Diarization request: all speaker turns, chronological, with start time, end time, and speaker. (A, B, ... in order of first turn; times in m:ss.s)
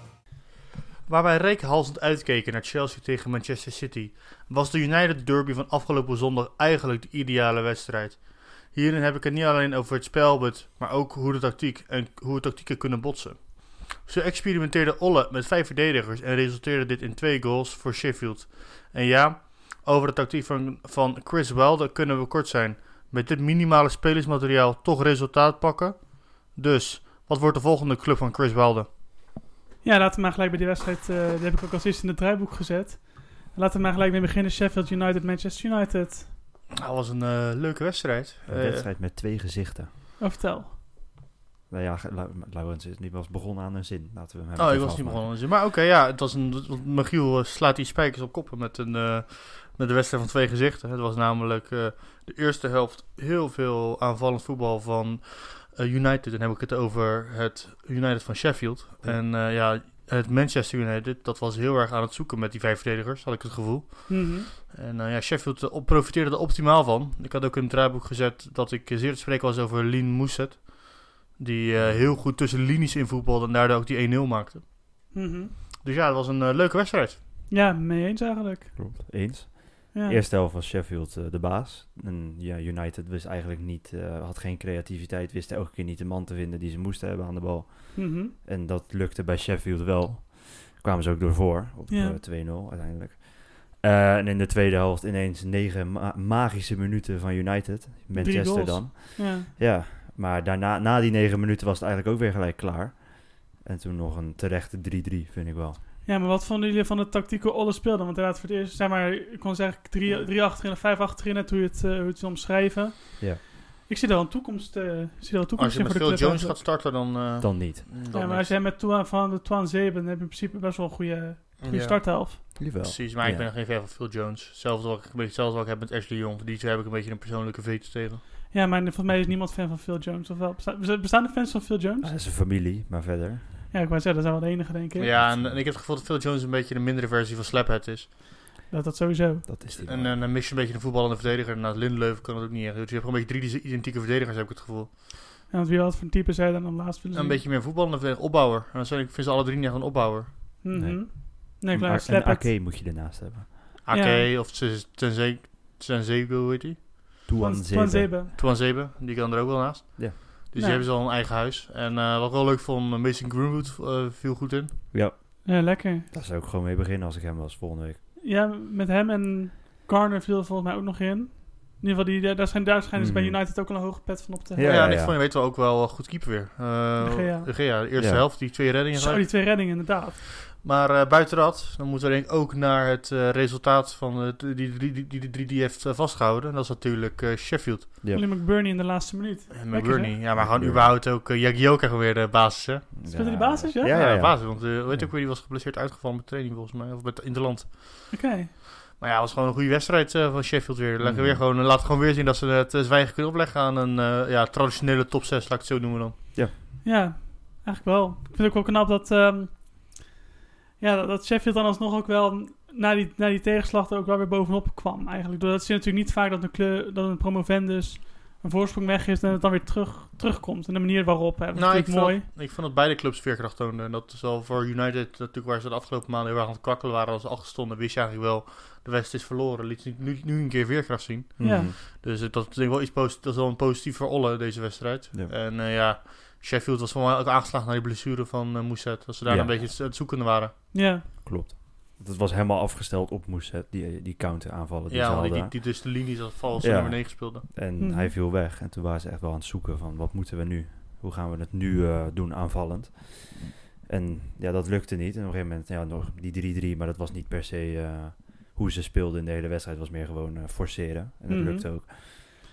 0:01.0-0:28.9 A
0:29.8-0:36.3 B
0:36.7-0:38.9 A
0:38.5-0:39.9 C
0:40.2-0:40.7 B
0:41.7-0:45.3 C
0:44.6-1:14.7 A
1:04.1-1:04.5 B
1:11.8-1:12.1 C
1:15.1-1:15.5 B
1:15.8-1:17.2 A
1:17.5-1:18.8 B
1:18.8-1:45.8 C
1:19.9-1:20.2 B
1:27.9-1:28.3 B
1:31.9-1:32.2 B
1:38.1-1:39.5 B
1:46.0-1:56.6 B
1:55.6-1:58.5 A
1:57.4-1:57.9 C
1:58.1-2:02.4 B
2:01.6-2:08.2 A
2:02.6-2:03.5 C
2:08.5-2:12.1 B
2:12.0-2:13.4 C
2:13.7-2:15.1 B
2:15.0-2:18.1 A
2:15.1-2:15.6 C
2:18.7-2:19.5 B
2:19.4-2:20.2 C
2:19.8-2:24.9 A
2:25.5-2:27.4 B
2:27.1-2:30.3 A
2:30.6-2:32.5 B
2:30.7-2:33.5 C
2:33.8-2:36.8 A
2:33.9-2:34.3 B
2:37.2-2:38.1 C
2:37.4-2:38.3 B
2:38.3-2:44.7 A
2:40.6-2:40.8 B
2:44.9-2:48.0 C
2:45.4-2:46.1 B
2:48.2-2:55.0 B
2:52.9-2:53.4 C
2:54.5-2:55.2 C
2:54.6-2:59.6 A
2:57.0-2:57.5 B
2:57.9-2:58.3 C
2:58.9-3:00.2 B
3:00.5-3:07.9 A
3:08.1-3:10.1 B
3:09.5-3:13.0 A
3:10.3-3:10.9 C
3:12.9-3:15.1 C
3:13.1-3:14.0 B
3:13.8-3:18.1 A
3:18.1-3:18.5 B
3:19.0-3:26.2 A
3:21.0-3:21.4 C
3:26.8-3:30.0 B
3:30.8-3:42.2 B
3:41.5-4:00.5 A
3:51.4-3:51.8 C
3:51.4-3:51.7 B
3:59.2-3:59.6 C
4:00.7-4:01.0 B
4:01.2-4:21.9 C
4:04.9-4:07.4 A
4:07.8-4:08.1 B
4:21.3-4:21.9 B